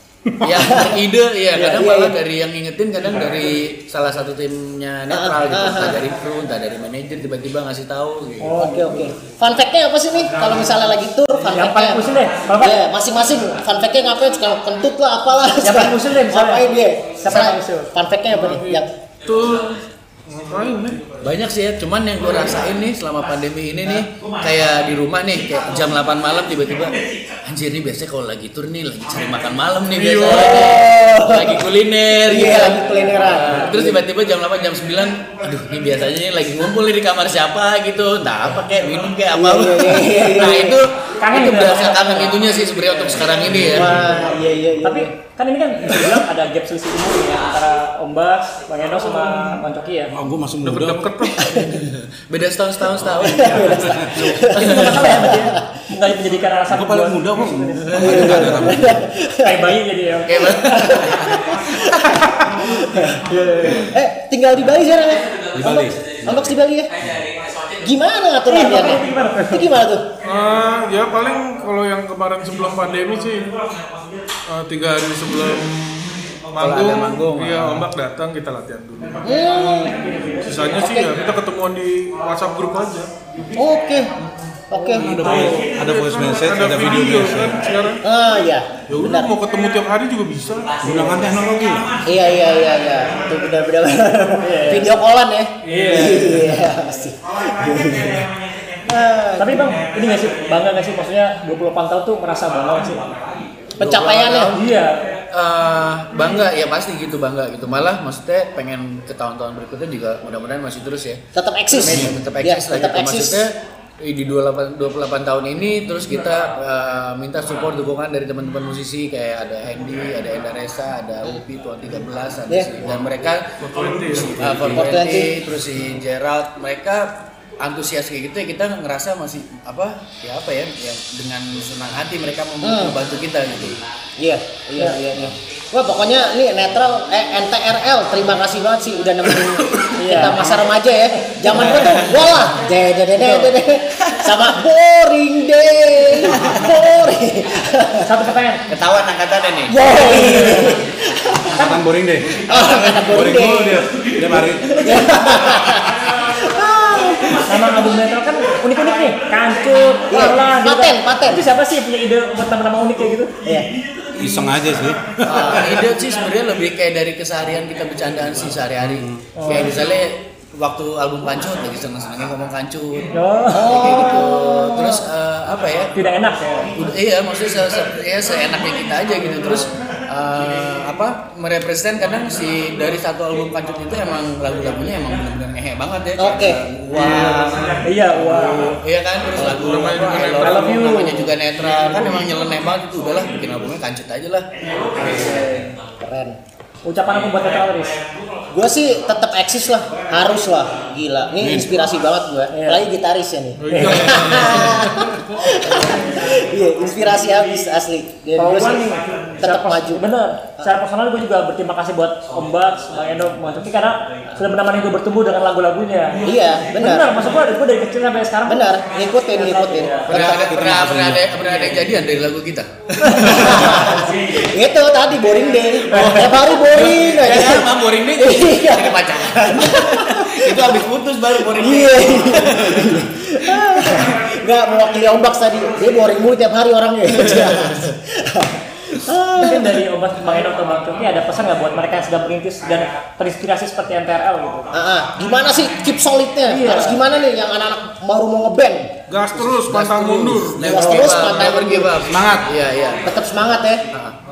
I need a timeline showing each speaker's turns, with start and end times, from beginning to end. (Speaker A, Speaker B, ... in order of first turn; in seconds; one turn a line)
Speaker A: 0.4-8.6
Speaker B: 0.4-1.0
Speaker B: 1.5-2.1
Speaker B: 5.1-6.0
Speaker C: 8.4-9.0
Speaker B: 8.6-18.9
Speaker C: 11.5-12.8
Speaker C: 15.6-17.9
Speaker D: 18.3-21.0
Speaker A: 21.2-26.9
Speaker A: 27.4-44.1
Speaker D: 29.9-30.7
Speaker B: 30.3-34.0
Speaker B: 39.3-40.8
Speaker C: 41.2-42.5
Speaker E: 43.5-43.9
Speaker B: 43.6-45.1
Speaker C: 44.8-50.1
Speaker E: 50.1-51.1
Speaker D: 50.6-51.7
Speaker B: 51.4-51.6
Speaker A: 51.6-55.3
Speaker B: 53.2-55.6
Speaker C: 54.5-61.1
Speaker E: 56.7-59.0
Speaker B: 58.0-59.6
Speaker A: 60.3-62.4
Speaker B: 60.8-63.1
Speaker C: 63.2-63.9
Speaker B: 63.9-66.9
Speaker A: 65.0-67.9
Speaker E: 65.5-66.5
Speaker B: 67.8-70.0
Speaker C: 68.5-69.8
Speaker D: 70.2-73.5
Speaker D: 74.5-79.2
Speaker A: 76.6-77.8
Speaker B: 79.2-80.0
Speaker C: 79.3-80.9
Speaker D: 80.4-83.1
Speaker B: 80.6-81.2
Speaker B: 83.5-84.1
Speaker B: 84.7-85.2
Speaker C: 84.7-85.8
Speaker E: 85.0-87.7
Speaker D: 85.3-88.0
Speaker B: 88.0-89.3
Speaker E: 88.9-89.2
Speaker D: 88.9-90.8
Speaker E: 90.8-92.0
Speaker B: 92.0-98.3
Speaker C: 94.4-94.9
Speaker C: 95.7-96.6
Speaker B: 98.8-99.8
Speaker C: 99.4-103.1
Speaker B: 103.8-104.5
Speaker A: 103.8-104.6
Speaker C: 104.5-105.1
Speaker A: 105.3-123.5
Speaker B: 111.3-113.5
Speaker E: 111.8-112.2
Speaker D: 123.6-124.7
Speaker A: 124.0-127.1
Speaker B: 124.6-125.4
Speaker A: 127.6-133.8
Speaker B: 132.6-133.0
Speaker B: 134.2-148.1
Speaker C: 139.9-140.5
Speaker A: 141.6-141.9
Speaker C: 143.2-143.5
Speaker C: 148.0-148.6
Speaker A: 148.7-149.7
Speaker B: 149.7-151.6
Speaker C: 149.9-150.8
Speaker C: 151.6-151.8
Speaker E: 151.6-155.4
Speaker B: 152.4-153.8
Speaker A: 152.5-153.1
Speaker B: 154.7-157.5
Speaker C: 157.4-163.3
Speaker B: 160.1-161.4
Speaker B: 163.4-163.7
Speaker E: 164.1-165.5
Speaker A: 165.2-175.9
Speaker B: 165.3-165.9
Speaker E: 168.8-169.2
Speaker C: 169.3-169.8
Speaker C: 173.1-173.7
Speaker B: 173.5-175.0
Speaker C: 175.9-176.7
Speaker A: 176.7-195.7
Speaker C: 179.4-179.7
Speaker B: 186.2-187.6
Speaker D: 187.0-187.5
Speaker C: 187.8-188.8
Speaker D: 189.4-191.2
Speaker C: 190.6-191.2
Speaker C: 195.0-195.7
Speaker B: 196.0-196.4
Speaker C: 196.8-198.0
Speaker B: 198.5-208.8
Speaker E: 201.4-201.7
Speaker C: 202.5-202.8
Speaker D: 203.6-205.2
Speaker C: 203.7-204.3
Speaker C: 205.6-206.2
Speaker C: 208.4-218.8
Speaker B: 209.4-210.0
Speaker B: 216.2-217.1
Speaker B: 218.4-220.5
Speaker C: 219.3-220.2
Speaker A: 220.1-224.1
Speaker E: 220.1-221.3
Speaker B: 223.1-230.8
Speaker A: 225.9-232.9
Speaker B: 231.4-239.8
Speaker A: 237.1-237.9
Speaker C: 239.3-244.7
Speaker B: 244.7-248.9
Speaker C: 246.4-247.0
Speaker D: 249.1-250.8
Speaker E: 249.3-252.5
Speaker A: 249.7-253.1
Speaker B: 250.6-252.0
Speaker B: 253.0-253.8
Speaker A: 253.9-254.1